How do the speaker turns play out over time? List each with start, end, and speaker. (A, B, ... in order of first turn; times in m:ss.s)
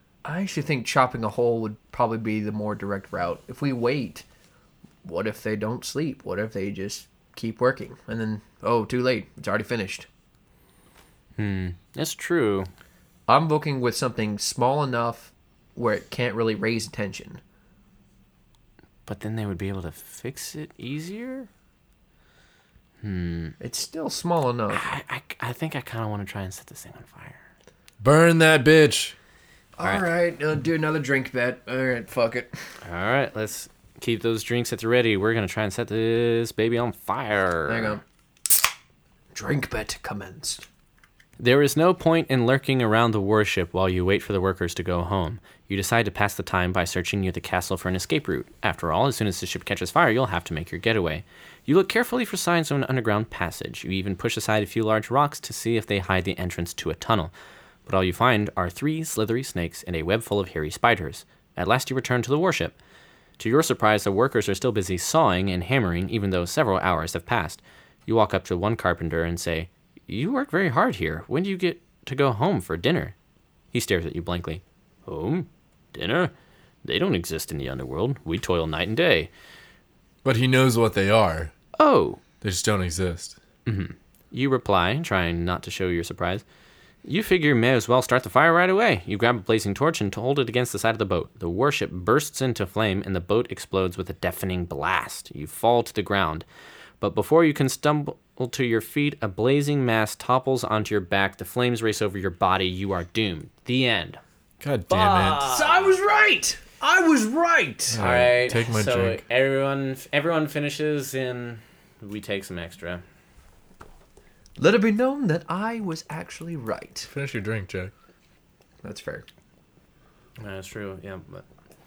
0:00.2-0:04.2 A
0:05.0-0:10.1 A
0:11.4-0:12.7 B
0:13.3-0:17.4 A
0:19.0-0:21.5 B
0:23.0-0:23.6 B
0:23.6-0:24.9 A
0:24.7-0:27.4 B
0:28.0-0:29.1 C
0:29.8-0:32.5 A
0:32.8-0:38.0 B
0:37.7-0:38.0 A
0:39.3-0:40.6 A
0:41.4-0:57.3 B
0:57.9-1:02.8 B
1:03.4-1:13.1 B
1:13.7-1:16.3 B
1:16.8-1:19.3 B
1:20.2-1:21.5 C
1:21.8-1:22.2 B
1:22.4-1:23.4 C
1:23.6-1:26.4 B
1:27.0-1:36.5 B
1:37.0-1:44.2 B
1:44.6-1:45.5 C
1:44.9-1:45.9 B
1:45.4-1:48.0 A
1:47.9-1:49.2 C
1:48.0-1:53.0 B
1:54.6-1:57.1 A
1:57.1-1:57.9 C
1:58.8-1:59.2 A
2:00.4-2:01.4 B